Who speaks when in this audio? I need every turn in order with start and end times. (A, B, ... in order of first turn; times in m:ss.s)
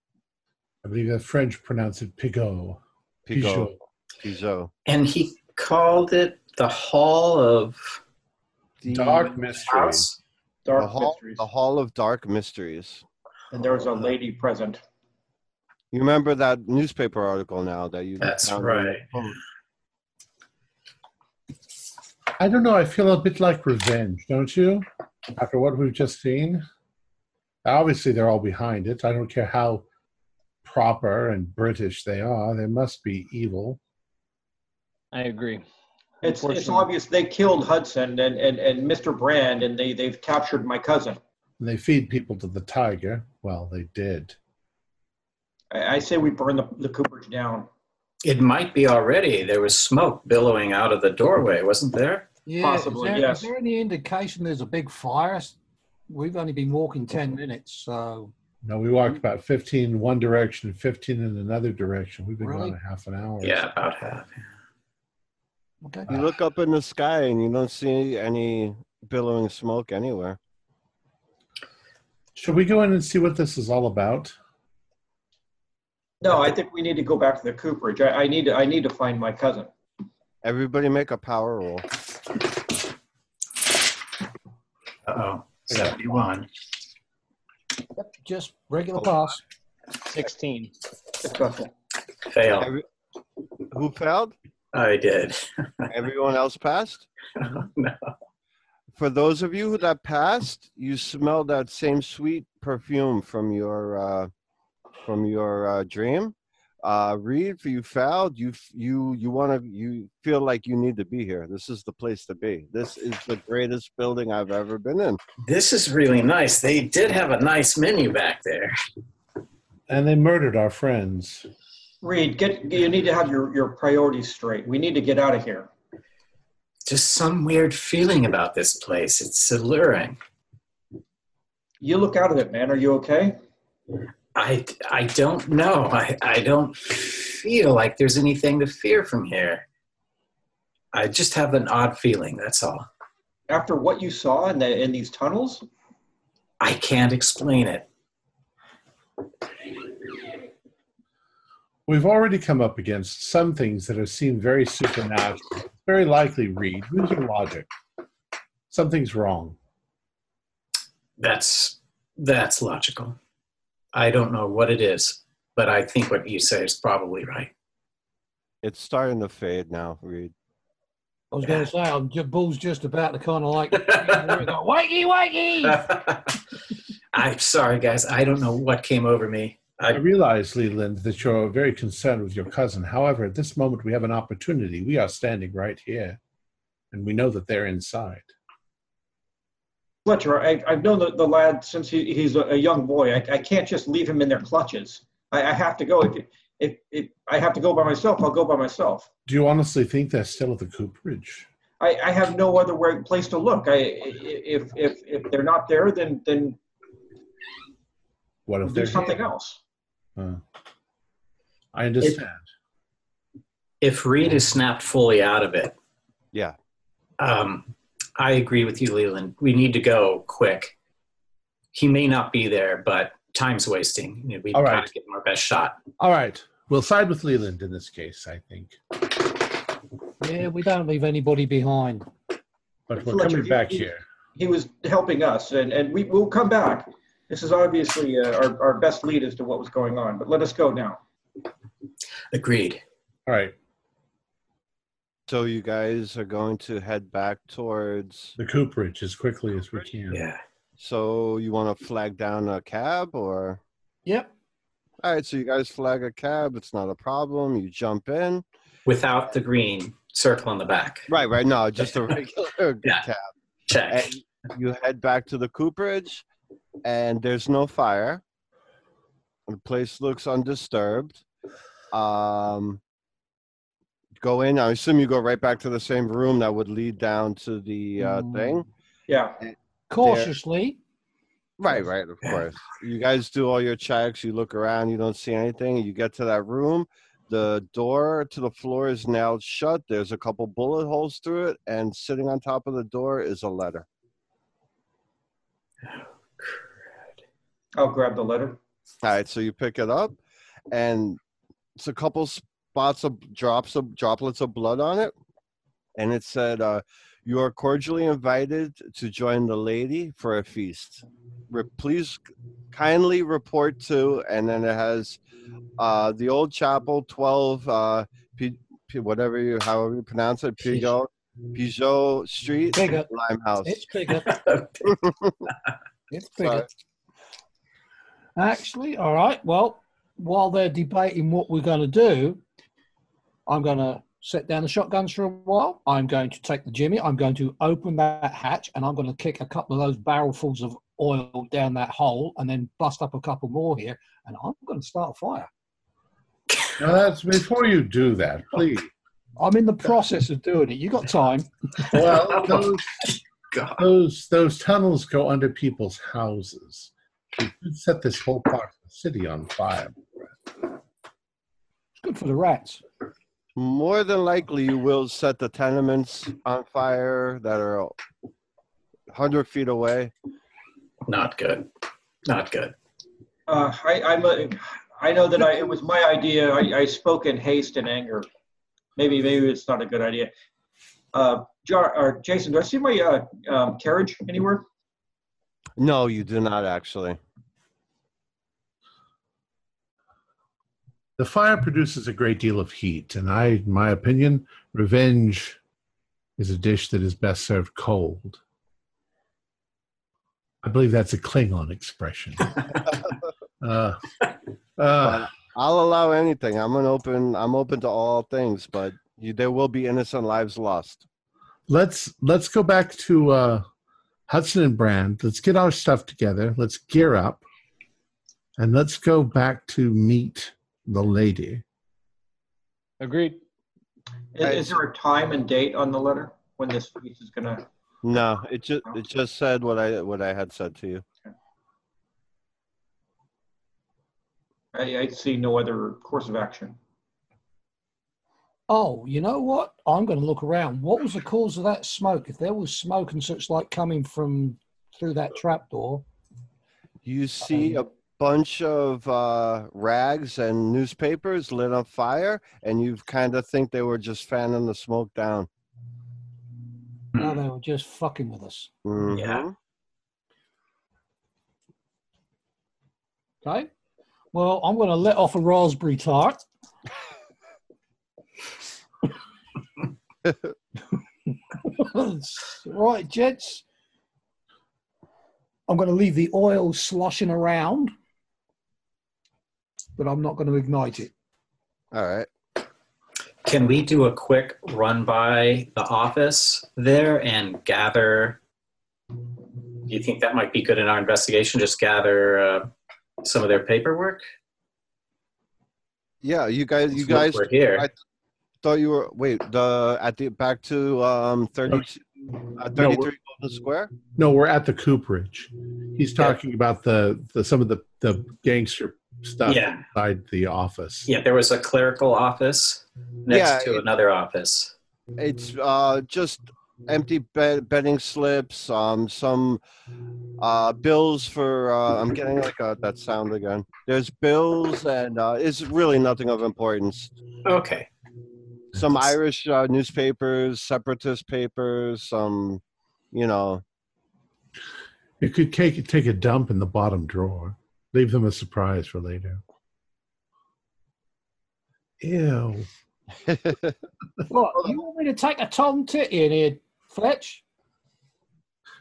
0:00.8-0:03.8 A
0:03.3-0:04.7 B
0:04.9-0:07.8 C
0:08.8-0:09.3 B
0:08.9-0:10.1 A
0:09.7-0:10.2 C
0:10.7-0:11.4 D
0:10.8-0:13.0 B
0:13.5-0:14.8 D
0:15.9-0:19.4 B
0:18.2-0:19.1 C
0:22.4-0:26.6 A
0:27.6-0:29.9 A
0:30.6-0:33.8 A
0:35.1-0:35.6 E
0:36.2-0:41.2 D
0:36.2-0:36.9 E
0:41.6-0:44.4 A
0:45.7-0:47.7 D
0:48.2-0:52.3 C
0:52.5-0:55.6 F
0:52.6-0:53.5 D
0:56.1-0:58.3 F
0:58.6-1:03.7 A
1:02.4-1:02.8 F
1:03.4-1:04.4 C
1:05.8-1:06.1 F
1:06.1-1:10.4 B
1:12.4-1:14.4 A
1:16.2-1:19.7 D
1:20.4-1:21.9 B
1:25.1-1:26.5 C
1:28.0-1:29.4 F
1:30.0-1:30.7 E
1:31.2-1:31.7 D
1:32.3-1:32.7 C
1:32.6-1:32.8 B
1:33.7-1:34.3 B
1:34.7-1:35.6 C
1:35.9-1:37.1 B
1:37.4-1:38.1 C
1:39.0-1:44.3 B
1:45.0-1:55.2 B
1:55.4-1:58.8 C
1:59.9-2:01.5 A
2:02.0-2:05.7 D
2:06.9-2:10.2 C
2:11.8-2:13.4 D
2:14.4-2:19.7 C
2:20.9-2:22.9 C
2:23.5-2:25.6 D
2:26.6-2:27.9 C
2:31.9-2:37.7 A
2:38.7-2:39.6 A
2:41.2-2:43.2 C
2:43.9-2:47.5 C
2:48.6-2:50.3 B
2:51.3-2:55.9 F
2:51.4-2:51.7 C
2:53.7-2:54.5 C
2:55.6-2:56.4 C
2:57.1-3:00.0 C
2:59.9-3:06.2 A
3:06.9-3:08.3 A
3:10.0-3:19.1 D
3:19.3-3:21.5 A
3:21.8-3:26.6 D
3:28.5-3:29.3 A
3:28.6-3:29.6 D
3:31.7-3:32.4 A
3:33.8-3:35.7 C
3:37.2-3:40.7 C
3:41.7-3:45.8 C
3:44.5-3:44.9 A
3:46.0-3:48.8 A
3:50.2-3:52.1 F
3:52.9-3:54.0 A
3:53.1-4:01.0 D
4:02.3-4:02.8 C
4:03.3-4:03.5 A
4:05.3-4:08.4 B
4:08.4-4:10.2 A
4:10.1-4:10.4 C
4:10.8-4:13.6 B
4:14.1-4:14.3 F
4:15.0-4:18.4 B
4:18.9-4:21.1 C
4:21.1-4:23.3 B
4:23.7-4:24.1 C
4:23.9-4:26.2 B
4:26.8-4:28.2 B
4:29.5-4:31.2 B
4:31.9-4:32.8 B
4:34.2-4:38.7 B
4:38.0-4:38.6 F
4:39.1-4:39.4 D
4:39.4-4:40.3 B
4:39.9-4:40.8 F
4:41.6-4:53.9 B
4:57.8-4:58.6 D
4:59.0-5:00.2 B
5:00.7-5:01.2 B
5:01.8-5:05.1 B
5:06.0-5:12.2 B
5:12.7-5:15.2 B
5:15.8-5:23.9 B
5:22.7-5:23.1 F
5:23.6-5:24.4 F
5:24.2-5:24.9 C
5:24.9-5:25.3 B
5:26.1-5:26.7 F
5:26.4-5:26.7 B
5:28.4-5:32.4 F
5:33.5-5:45.5 F
5:46.8-5:48.9 A
5:49.4-5:51.5 F
5:51.8-5:53.1 A
5:51.9-5:53.8 C
5:53.8-6:00.0 A
6:02.0-6:02.8 F
6:03.6-6:07.9 B
6:09.1-6:10.1 B
6:11.1-6:11.7 C
6:12.3-6:12.8 C
6:13.5-6:18.3 D
6:19.0-6:20.3 D
6:21.1-6:24.7 D
6:25.8-6:27.2 B
6:31.2-6:35.6 A
6:36.4-6:38.4 A
6:40.6-6:42.8 A
6:43.6-6:44.0 A
6:44.8-6:45.3 A
6:45.0-6:51.0 B
6:51.7-6:53.6 A
6:54.3-6:57.4 A
6:58.6-7:01.6 A
7:03.0-7:03.4 E
7:04.4-7:07.7 D
7:04.4-7:04.8 B
7:08.0-7:11.0 B
7:14.7-7:16.8 D
7:18.7-7:26.0 F
7:27.0-7:35.5 B
7:27.5-7:27.8 F
7:37.1-7:38.7 F
7:38.8-7:39.5 B
7:39.0-7:39.5 C
7:43.4-7:43.7 F
7:44.3-7:46.4 F
7:51.6-7:53.6 F
7:55.7-7:57.9 F
8:00.0-8:01.1 F
8:01.9-8:02.3 B
8:03.4-8:08.4 C
8:09.8-8:12.7 C
8:13.2-8:14.2 C
8:16.2-8:17.9 B
8:16.9-8:17.9 C
8:18.6-8:23.9 B
8:22.8-8:23.1 A
8:24.2-8:31.1 A
8:29.4-8:29.8 C
8:31.1-8:34.7 C
8:33.3-8:33.8 B
8:35.2-8:39.6 B
8:40.4-8:47.1 B
8:47.4-8:47.9 C
8:48.7-8:52.6 B
8:53.1-8:53.6 B
8:55.2-8:59.4 A
9:02.0-9:02.7 A
9:03.3-9:03.8 B
9:04.3-9:07.4 F